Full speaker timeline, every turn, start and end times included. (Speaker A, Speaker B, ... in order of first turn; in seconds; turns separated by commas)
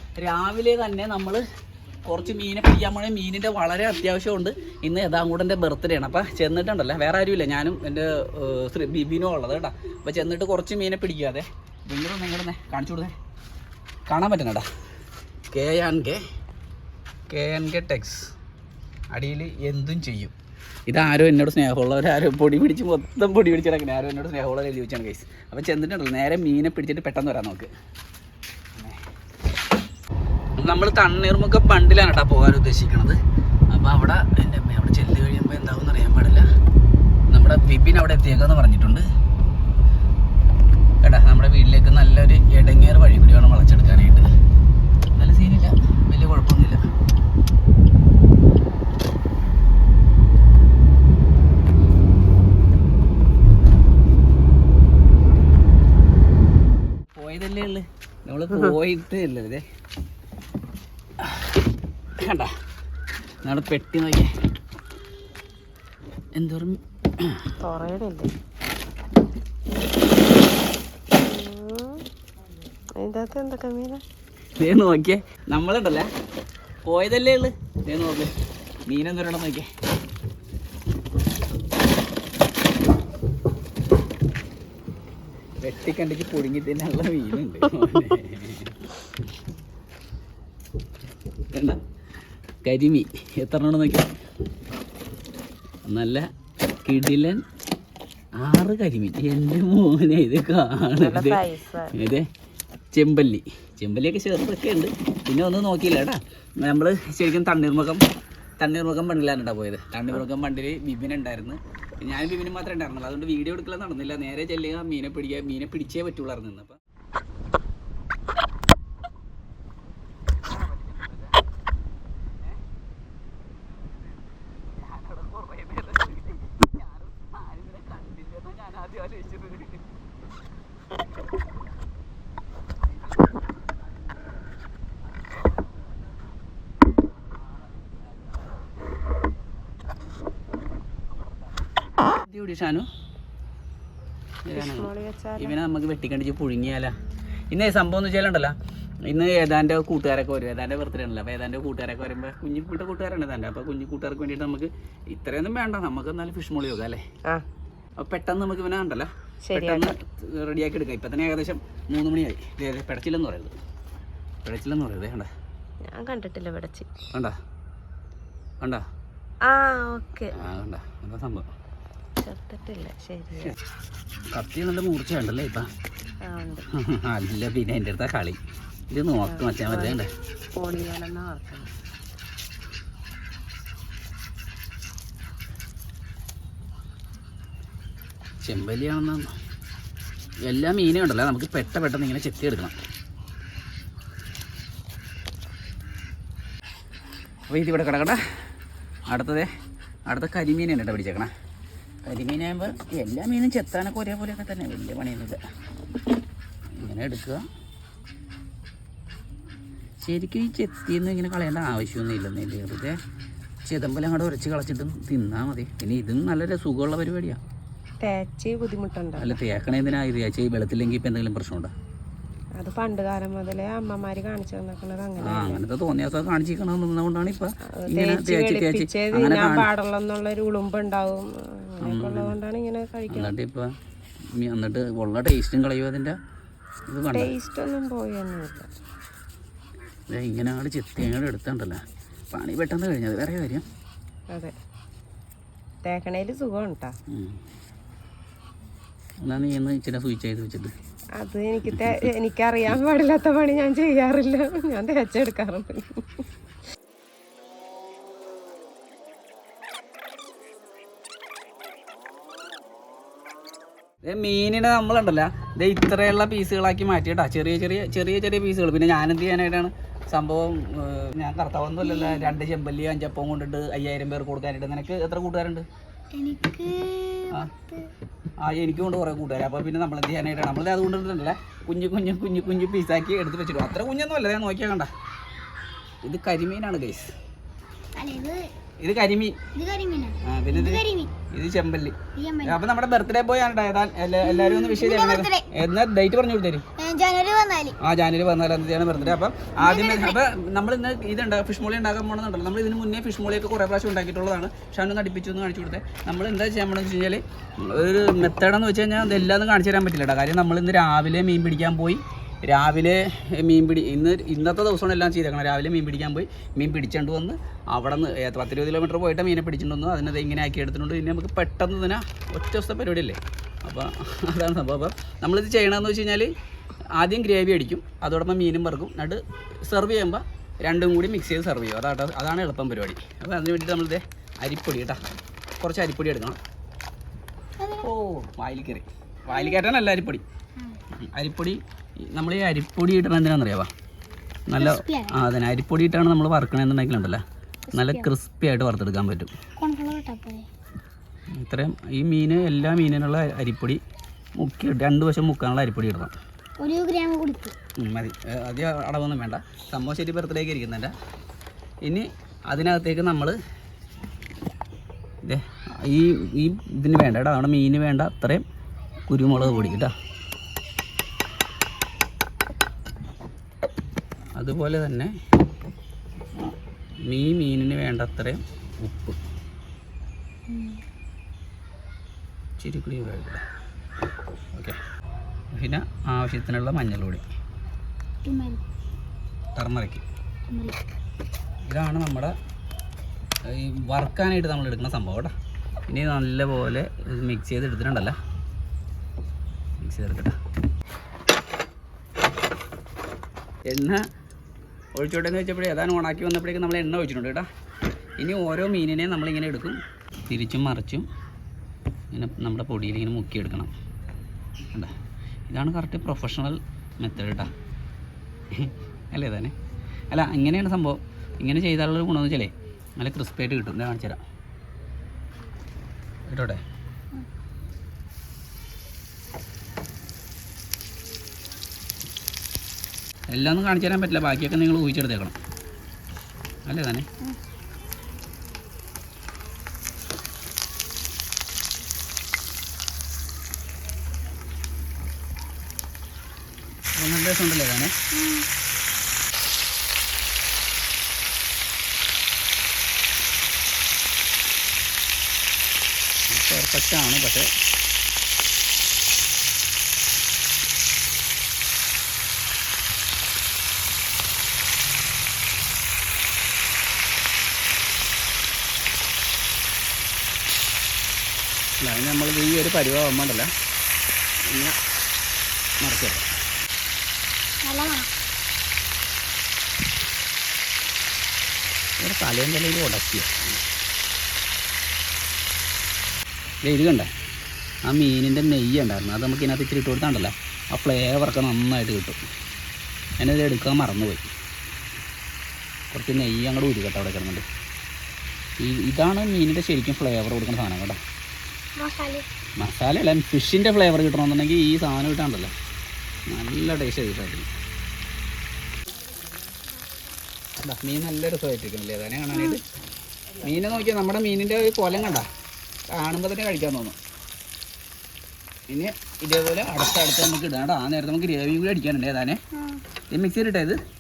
Speaker A: 0.2-1.4, Speaker A: 2.1-13.2, Speaker A: 14.1-14.7, Speaker A: 15.5-16.2, Speaker A: 17.3-18.3, Speaker A: 19.1-20.3, Speaker A: 20.9-27.7, Speaker A: 30.6-33.2, Speaker A: 33.7-36.5, Speaker A: 37.3-39.0, Speaker A: 41.0-44.3, Speaker A: 45.2-46.8, Speaker A: 57.1-59.6, Speaker B: 58.5-58.8, Speaker A: 62.2-62.5, Speaker A: 63.4-64.3, Speaker A: 66.3-67.5, Speaker B: 67.6-68.3, Speaker B: 71.2-72.0, Speaker B: 73.0-74.0, Speaker A: 74.6-76.1, Speaker A: 76.8-78.3, Speaker A: 78.9-79.7, Speaker A: 85.6-88.8, Speaker A: 91.5-91.8, Speaker A: 92.6-94.1, Speaker A: 95.9-96.3, Speaker A: 96.8-97.4, Speaker A: 98.4-101.4, Speaker B: 101.0-102.0, Speaker A: 101.9-102.3, Speaker A: 102.9-108.0, Speaker A: 108.6-116.8, Speaker A: 120.4-121.4, Speaker A: 124.5-129.9, Speaker A: 142.2-142.9, Speaker A: 144.5-146.9, Speaker B: 144.5-145.6, Speaker A: 147.5-148.6, Speaker A: 149.1-157.0, Speaker A: 158.0-163.6, Speaker B: 159.5-159.9, Speaker A: 164.4-165.3, Speaker B: 165.9-166.9, Speaker B: 169.4-170.3, Speaker A: 170.3-171.5, Speaker B: 172.2-173.6, Speaker A: 174.3-175.7, Speaker B: 176.2-176.7, Speaker A: 176.8-178.4, Speaker A: 178.9-180.1, Speaker B: 179.3-180.0, Speaker B: 180.6-181.7, Speaker A: 188.4-189.3, Speaker A: 190.4-192.8, Speaker A: 197.5-198.2, Speaker A: 199.1-199.5, Speaker A: 200.1-201.3, Speaker A: 202.1-205.4, Speaker A: 206.8-207.4, Speaker A: 210.0-213.0, Speaker A: 213.7-217.4, Speaker B: 218.0-219.4, Speaker A: 219.2-221.7, Speaker B: 222.6-225.7, Speaker A: 225.2-229.7, Speaker B: 227.7-233.3, Speaker A: 231.8-232.3, Speaker A: 233.1-233.7, Speaker A: 234.4-236.2, Speaker A: 236.9-237.3, Speaker B: 237.1-238.7, Speaker A: 240.1-241.8, Speaker A: 242.3-243.6, Speaker B: 245.8-246.9, Speaker A: 247.1-247.4, Speaker A: 249.2-250.7, Speaker B: 251.2-256.2, Speaker A: 251.7-252.0, Speaker A: 264.0-275.7, Speaker C: 271.8-272.3, Speaker C: 276.1-277.9, Speaker A: 278.4-284.9, Speaker A: 286.0-287.1, Speaker C: 288.0-288.5, Speaker A: 288.8-289.4, Speaker C: 289.6-291.1, Speaker A: 290.2-296.6, Speaker C: 292.2-292.6, Speaker C: 294.2-295.4, Speaker C: 296.8-297.8, Speaker A: 297.8-326.3, Speaker C: 299.6-300.2, Speaker A: 326.9-335.0, Speaker A: 335.6-336.4, Speaker C: 337.6-337.9, Speaker A: 337.9-340.2, Speaker C: 339.3-339.6, Speaker A: 341.0-343.7, Speaker A: 344.5-347.2, Speaker C: 344.6-345.2, Speaker C: 347.7-348.1, Speaker A: 347.7-349.3, Speaker C: 349.6-350.5, Speaker A: 351.3-353.8, Speaker A: 354.4-356.1, Speaker C: 356.6-357.6, Speaker A: 357.8-360.9, Speaker A: 361.8-363.4, Speaker A: 365.2-368.4, Speaker A: 369.1-369.9, Speaker C: 369.4-369.7, Speaker A: 374.4-375.1, Speaker A: 377.1-379.2, Speaker C: 380.5-380.8, Speaker A: 382.6-383.4, Speaker A: 385.5-387.2, Speaker C: 388.2-388.6, Speaker A: 389.6-390.0, Speaker C: 390.5-390.8, Speaker A: 391.7-392.3, Speaker A: 393.5-395.3, Speaker A: 395.9-398.2, Speaker A: 399.8-400.4, Speaker A: 403.7-404.0, Speaker A: 404.9-407.5, Speaker A: 408.2-411.1, Speaker A: 412.1-413.7, Speaker A: 415.5-417.5, Speaker A: 418.5-419.6, Speaker A: 420.1-424.2, Speaker A: 426.3-426.6, Speaker A: 433.3-435.4, Speaker A: 436.7-437.1, Speaker A: 446.9-447.9, Speaker C: 448.1-448.5, Speaker A: 456.3-457.5, Speaker A: 471.8-473.5, Speaker A: 474.5-474.8, Speaker A: 475.8-476.2, Speaker C: 477.6-478.1, Speaker A: 482.0-483.6, Speaker A: 486.6-487.1, Speaker A: 487.9-492.2, Speaker A: 493.2-494.3, Speaker A: 495.9-497.4, Speaker A: 498.6-501.0, Speaker C: 501.8-502.3, Speaker A: 502.6-505.5, Speaker A: 506.3-507.5, Speaker A: 510.6-512.6, Speaker C: 512.3-512.6, Speaker A: 513.4-515.3, Speaker A: 516.0-517.0, Speaker A: 518.7-522.4, Speaker C: 522.5-522.8, Speaker A: 523.1-523.8